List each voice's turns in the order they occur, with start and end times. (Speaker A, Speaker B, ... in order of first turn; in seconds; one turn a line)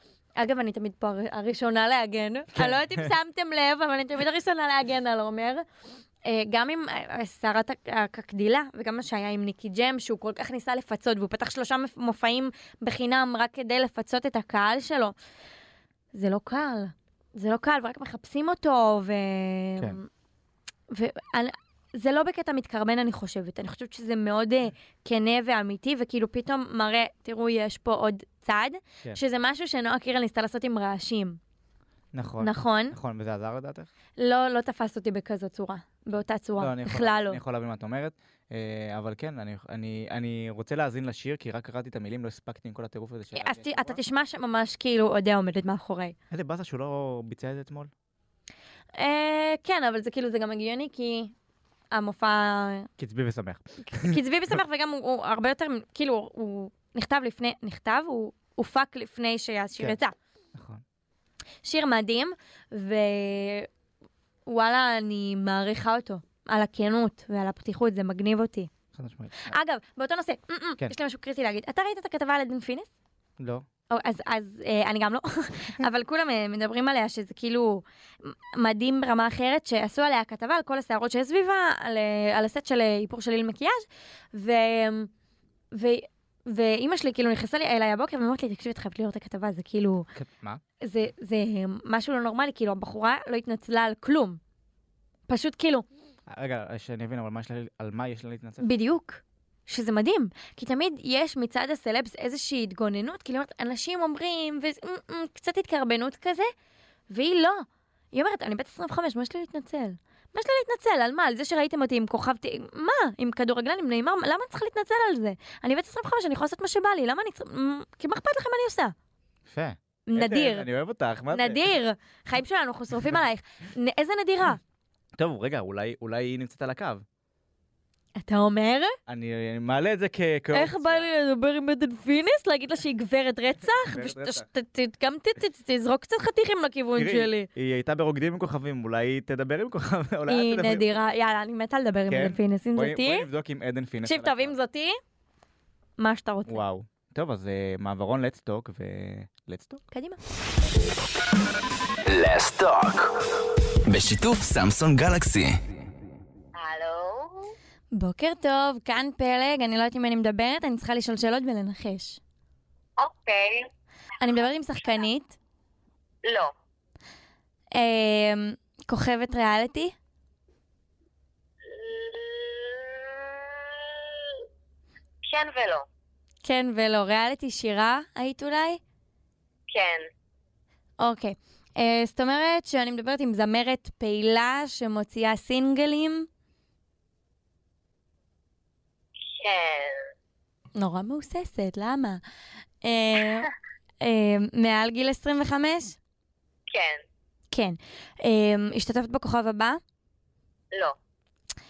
Speaker A: 0.4-5.6
Speaker B: 2.5-3.1
Speaker A: 6.2-15.1
Speaker A: 16.1-20.1
Speaker A: 20.9-31.4
Speaker B: 32.1-33.9
Speaker A: 32.4-33.0
Speaker A: 34.2-37.4
Speaker B: 36.6-44.0
Speaker A: 43.3-46.1
Speaker B: 46.3-47.9
Speaker A: 48.9-51.3
Speaker A: 51.9-52.9
Speaker B: 53.0-54.2
Speaker A: 53.9-60.1
Speaker B: 60.5-60.8
Speaker A: 61.6-63.7
Speaker A: 64.5-68.7
Speaker B: 68.9-69.5
Speaker A: 69.5-72.9
Speaker B: 73.4-73.7
Speaker A: 73.9-85.1
Speaker A: 85.7-90.1
Speaker B: 90.1-90.6
Speaker A: 90.8-94.4
Speaker A: 95.3-95.8
Speaker B: 96.3-98.6
Speaker A: 98.6-106.5
Speaker A: 107.1-118.9
Speaker B: 119.5-121.8
Speaker A: 120.1-120.7
Speaker A: 121.3-124.6
Speaker B: 125.2-127.0
Speaker A: 128.2-129.0
Speaker B: 129.1-131.1
Speaker A: 130.5-137.5
Speaker B: 133.9-134.4
Speaker B: 136.9-140.9
Speaker A: 140.3-143.3
Speaker B: 142.1-144.6
Speaker A: 144.0-145.0
Speaker A: 146.0-146.6
Speaker B: 146.5-149.8
Speaker A: 149.9-150.2
Speaker C: 152.1-153.1
Speaker C: 153.9-155.6
Speaker D: 156.5-157.5
Speaker A: 157.9-162.2
Speaker D: 163.0-163.7
Speaker A: 164.2-165.3
Speaker D: 166.2-166.5
Speaker A: 167.7-169.9
Speaker D: 171.6-174.4
Speaker D: 175.3-175.8
Speaker A: 176.4-178.8
Speaker D: 179.7-180.0
Speaker A: 181.0-186.3
Speaker D: 189.3-190.1
Speaker A: 190.7-192.2
Speaker A: 192.8-196.0
Speaker D: 196.7-197.0
Speaker A: 197.5-199.8